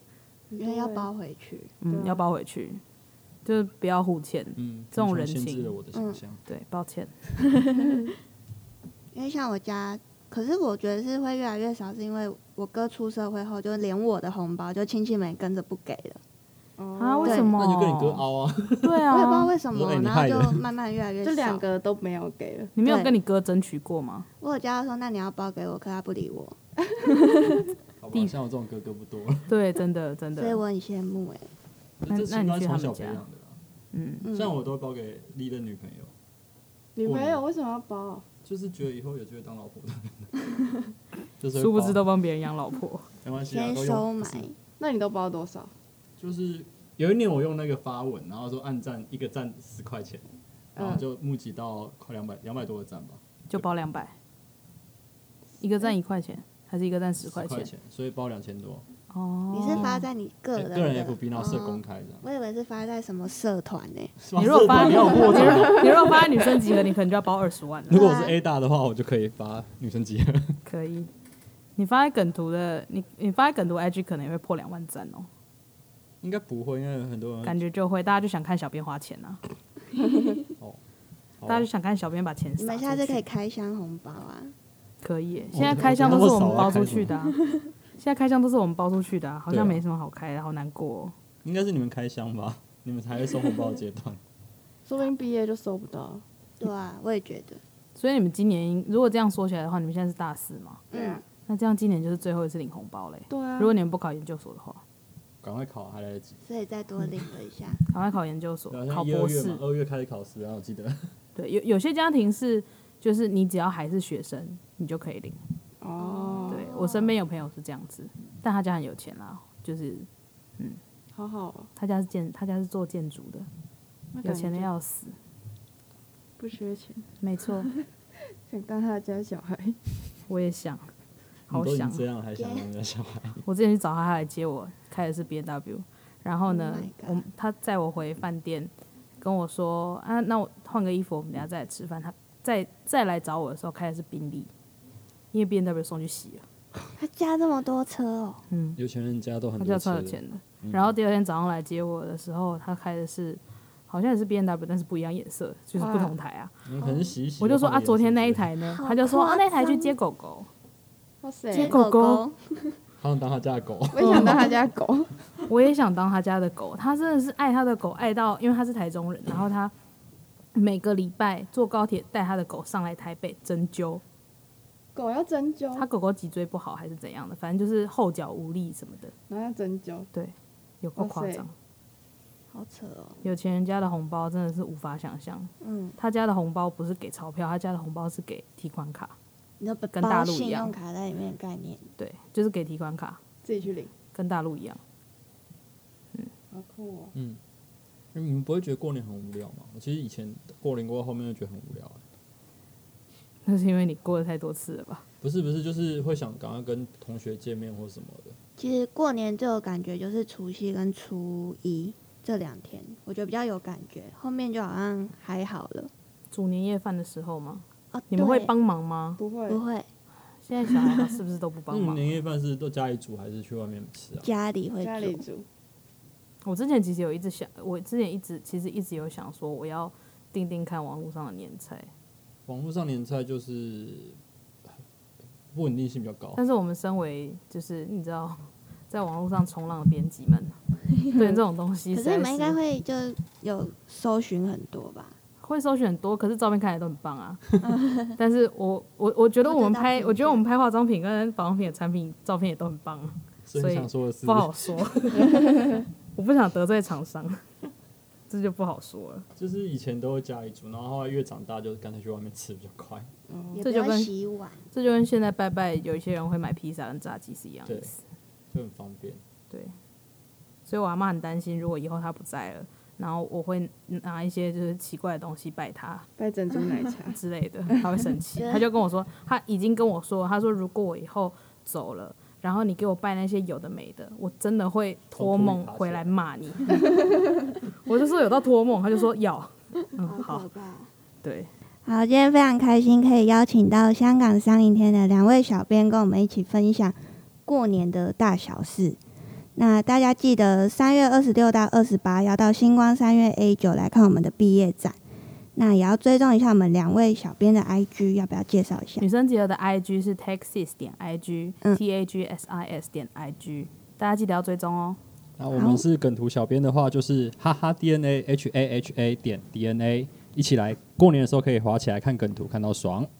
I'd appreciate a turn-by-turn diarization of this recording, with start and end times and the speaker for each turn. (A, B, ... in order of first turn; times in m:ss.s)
0:00.5-0:01.1 A
0:00.6-0:01.7 B
0:01.8-0:02.8 C
0:01.9-0:02.2 A
0:03.4-0:05.7 C
0:04.6-0:06.4 D
0:05.9-0:06.2 B
0:06.5-0:07.1 C
0:07.6-0:08.0 B
0:09.1-0:16.2 B
0:16.8-0:17.5 A
0:17.0-0:18.3 C
0:17.2-0:17.5 B
0:17.5-0:19.1 D
0:18.8-0:19.5 C
0:19.1-0:21.6 B
0:19.7-0:20.6 D
0:21.2-0:22.7 A
0:22.8-0:24.3 C
0:22.8-0:23.1 B
0:24.4-0:26.6 B
0:27.1-0:27.4 B
0:28.0-0:29.5 D
0:29.5-0:30.6 C
0:30.4-0:31.5 B
0:32.0-0:33.6 D
0:32.1-0:33.2 C
0:33.9-0:34.3 C
0:34.2-0:34.6 B
0:34.3-0:36.1 D
0:37.0-0:38.2 A
0:37.0-0:37.4 D
0:38.4-0:40.5 D
0:41.4-0:42.0 D
0:41.5-0:43.1 C
0:43.2-0:44.5 D
0:43.4-0:44.6 B
0:44.8-0:45.7 A
0:46.2-0:50.2 D
0:50.8-0:51.0 A
0:50.8-0:53.6 D
0:53.5-0:54.2 C
0:55.6-0:57.7 C
0:57.2-0:58.9 D
0:59.1-1:00.0 C
0:59.5-1:04.1 B
1:00.6-1:02.2 D
1:04.2-1:06.4 D
1:04.4-1:08.1 C
1:07.9-1:10.6 D
1:07.9-1:08.4 B
1:10.7-1:11.1 C
1:11.8-1:15.3 C
1:16.2-1:17.6 D
1:17.4-1:19.4 C
1:21.4-1:21.7 D
1:21.5-1:23.2 C
1:22.6-1:24.6 B
1:25.0-1:27.4 C
1:25.5-1:27.1 D
1:28.0-1:31.1 C
1:29.5-1:29.8 D
1:31.4-1:34.2 D
1:34.9-1:36.2 A
1:36.6-1:37.6 B
1:38.0-1:40.8 C
1:40.9-1:41.2 B
1:40.9-1:41.2 A
1:41.5-1:44.8 C
1:43.3-1:43.7 A
1:45.4-1:46.4 D
1:46.4-1:47.8 B
1:47.9-1:49.6 C
1:48.7-1:51.1 D
1:51.4-1:55.4 C
1:55.8-1:56.7 A
1:56.0-1:57.1 B
1:56.5-2:00.8 C
2:01.1-2:01.7 A
2:01.8-2:03.5 C
2:04.1-2:04.7 A
2:04.2-2:05.2 C
2:06.4-2:07.1 A
2:07.2-2:07.7 C
2:08.4-2:10.0 A
2:10.3-2:10.9 C
2:11.5-2:13.4 D
2:11.5-2:12.0 C
2:12.4-2:12.7 B
2:13.4-2:24.5 C
2:16.5-2:17.2 B
2:25.3-2:26.4 C
2:27.0-2:28.4 B
2:28.5-2:28.8 C
2:28.8-2:30.9 D
2:29.6-2:36.5 C
2:35.8-2:36.2 A
2:36.6-2:38.5 D
2:36.8-2:37.1 B
2:37.4-2:40.5 C
2:38.7-2:39.9 B
2:41.2-2:41.8 A
2:41.5-2:42.8 B
2:41.6-2:42.2 C
2:43.0-2:44.6 D
2:43.9-2:45.1 A
2:44.0-2:44.4 C
2:45.5-2:49.7 C
2:50.6-2:54.0 C
2:55.0-2:55.9 A
2:55.8-2:59.1 C
2:59.3-3:00.1 A
3:00.1-3:01.5 C
3:01.0-3:01.5 A
3:02.5-3:03.2 B
3:03.2-3:09.2 C
3:05.6-3:06.0 B
3:09.6-3:11.9 B
3:09.9-3:10.7 C
3:12.0-3:13.2 C
3:13.4-3:13.9 A
3:14.1-3:14.8 C
3:16.5-3:17.1 A
3:18.1-3:22.0 D
3:23.4-3:25.0 C
3:25.2-3:28.4 D
3:28.6-3:35.9 B
3:36.3-3:39.2 C
3:37.9-3:38.5 B
3:39.2-3:39.6 A
3:39.5-3:39.9 B
3:40.4-3:42.2 C
3:40.7-3:41.0 B
3:41.7-3:44.3 D
3:44.2-3:45.2 B
3:44.8-3:45.4 A
3:46.4-3:51.9 C
3:52.5-3:54.2 D
3:55.5-3:56.4 D
3:56.4-4:02.6 C
4:01.0-4:01.4 B
4:01.9-4:05.2 B
4:05.4-4:07.5 C
4:07.6-4:08.1 B
4:08.1-4:17.4 C
4:09.4-4:10.4 B
4:13.5-4:15.6 D
4:18.3-4:19.3 C
4:19.4-4:23.1 D
4:23.3-4:23.6 A
4:23.5-4:24.6 B
4:23.6-4:24.1 C
4:24.7-4:28.0 C
4:27.7-4:27.9 D
4:28.5-4:29.2 D
4:29.5-4:29.8 C
4:30.7-4:36.1 C
4:36.2-4:37.2 A
4:37.1-4:46.9 C
4:38.4-4:38.7 B
4:45.2-4:46.1 D
4:47.8-4:50.5 C
4:50.0-4:50.9 B
4:51.2-4:51.5 C
4:51.8-4:59.0 B
4:59.6-5:05.0 B
5:05.6-5:09.1 B
5:09.0-5:15.0 C
5:15.4-5:23.1 D
5:15.5-5:15.8 B